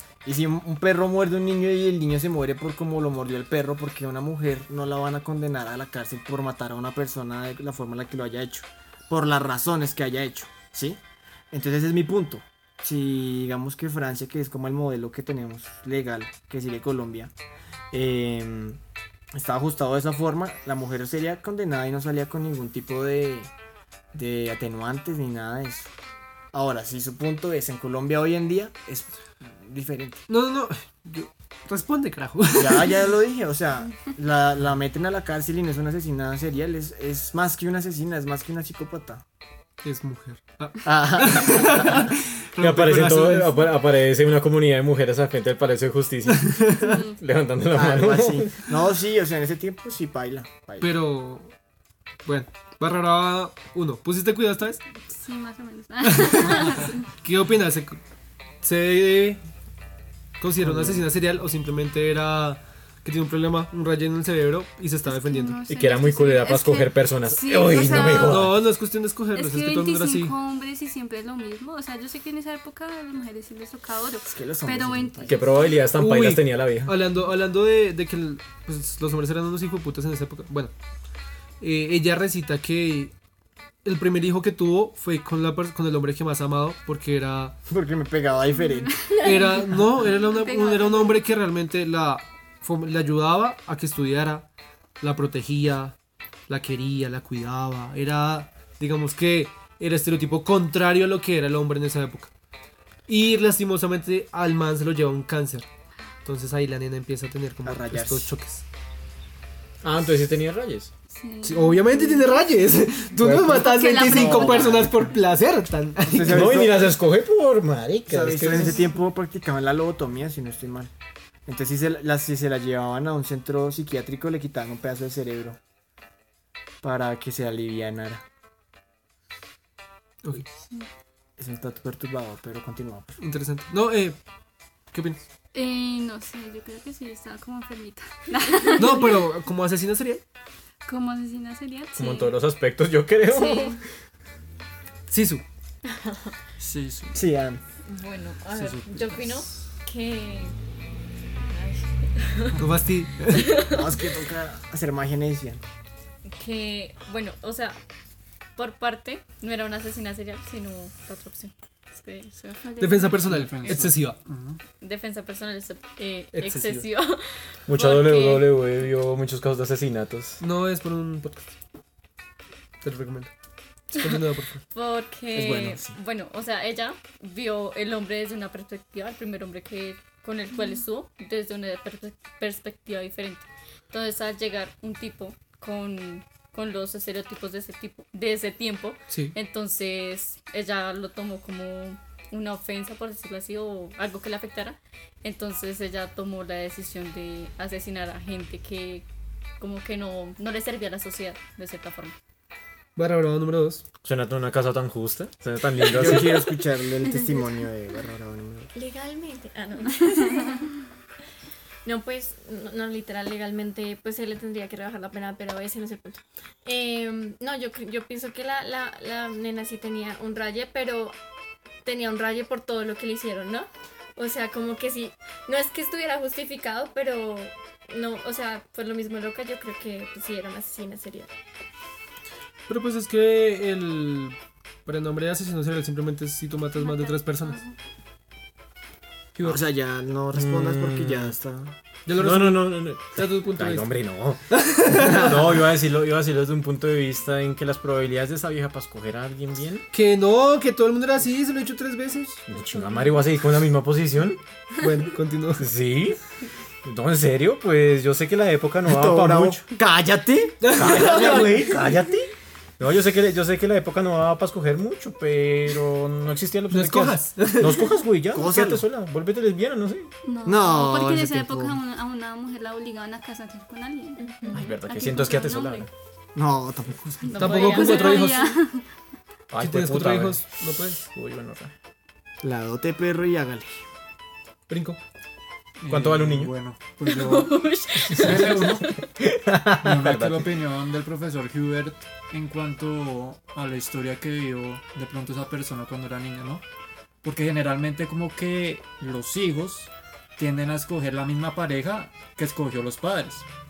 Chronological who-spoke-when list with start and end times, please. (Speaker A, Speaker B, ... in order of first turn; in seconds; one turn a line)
Speaker A: 0.2-17.3
Speaker A: 17.9-18.8
Speaker A: 19.3-23.5
Speaker A: 24.1-25.9
Speaker A: 26.5-30.2
Speaker B: 30.3-33.0
Speaker A: 32.5-39.2
Speaker B: 39.8-43.6
Speaker A: 40.8-42.1
Speaker C: 42.6-48.7
Speaker B: 46.3-47.0
Speaker D: 46.8-47.1
Speaker A: 47.7-50.9
Speaker B: 50.8-51.5
Speaker B: 52.2-54.8
Speaker D: 55.1-57.0
Speaker B: 56.0-58.0
Speaker B: 58.6-59.4
Speaker B: 60.4-65.6
Speaker A: 60.6-61.0
Speaker D: 65.1-68.5
Speaker C: 65.7-68.6
Speaker B: 68.1-70.3
Speaker D: 69.3-75.6
Speaker A: 74.2-75.4
Speaker C: 75.2-77.0
Speaker B: 75.9-80.7
Speaker B: 81.6-83.1
Speaker B: 83.8-87.6
Speaker A: 87.7-89.1
Speaker D: 88.5-91.3
Speaker B: 89.2-94.5
Speaker B: 95.0-96.0
Speaker B: 96.5-102.3
Speaker B: 103.1-105.7
Speaker B: 106.2-108.6
Speaker A: 107.6-108.3
Speaker C: 109.8-110.9
Speaker D: 111.1-112.4
Speaker B: 111.4-116.6
Speaker C: 113.2-113.6
Speaker D: 113.5-114.7
Speaker A: 113.9-115.1
Speaker A: 116.1-116.9
Speaker C: 116.2-118.8
Speaker A: 118.1-120.9
Speaker A: 121.5-125.6
Speaker A: 126.8-128.2
Speaker A: 131.4-133.2
Speaker B: 133.2-134.2
Speaker B: 134.9-135.2
Speaker D: 135.5-139.2
Speaker B: 138.8-140.2
Speaker D: 140.8-142.3
Speaker C: 142.0-143.8
Speaker D: 143.3-143.8
Speaker B: 145.1-145.4
Speaker E: 146.6-147.2
Speaker A: 147.1-147.6
Speaker F: 147.8-150.5
Speaker E: 148.5-149.6
Speaker F: 151.5-152.6
Speaker B: 152.6-153.5
Speaker F: 153.3-153.9
Speaker A: 153.6-155.6
Speaker F: 156.2-157.8
Speaker F: 158.6-162.7
Speaker D: 162.6-163.2
Speaker B: 162.8-164.2
Speaker E: 163.2-164.6
Speaker F: 164.8-168.5
Speaker B: 166.3-166.9
Speaker C: 167.7-170.4
Speaker B: 170.4-171.5
Speaker B: 172.8-173.3
Speaker B: 173.9-174.6
Speaker F: 174.7-199.1
Speaker A: 175.3-176.0
Speaker B: 189.1-189.3
Speaker F: 199.6-202.2
Speaker B: 202.9-203.8
Speaker C: 204.0-206.4
Speaker A: 205.8-208.7
Speaker G: 208.7-210.7
Speaker G: 211.8-221.2
Speaker G: 221.8-231.3
Speaker B: 232.7-237.6
Speaker D: 236.8-237.7
Speaker B: 239.3-239.6
Speaker A: 239.4-241.8
Speaker C: 240.3-241.4
Speaker B: 242.1-243.9
Speaker C: 242.1-249.8
Speaker B: 244.5-245.5
Speaker B: 249.9-252.4
Speaker C: 252.5-254.4
Speaker B: 254.8-255.7
Speaker C: 255.6-256.2
Speaker C: 256.8-259.6
Speaker A: 258.9-261.7
Speaker B: 260.6-261.5
Speaker C: 260.7-270.1
Speaker B: 266.7-267.9
Speaker A: 268.3-268.8
Speaker D: 270.2-275.9
Speaker A: 270.4-271.8
Speaker G: 274.2-274.6
Speaker C: 274.5-275.9
Speaker A: 276.3-277.3
Speaker F: 277.2-278.2
Speaker B: 277.3-278.5
Speaker D: 277.3-278.9
Speaker C: 279.5-281.7
Speaker B: 279.6-281.0
Speaker A: 282.4-283.8
Speaker B: 284.7-285.0
Speaker E: 285.8-286.5
Speaker C: 285.9-286.5
Speaker A: 286.3-287.6
Speaker F: 287.0-288.8
Speaker E: 288.0-288.9
Speaker C: 289.2-290.5
Speaker E: 289.8-296.6
Speaker E: 297.2-303.5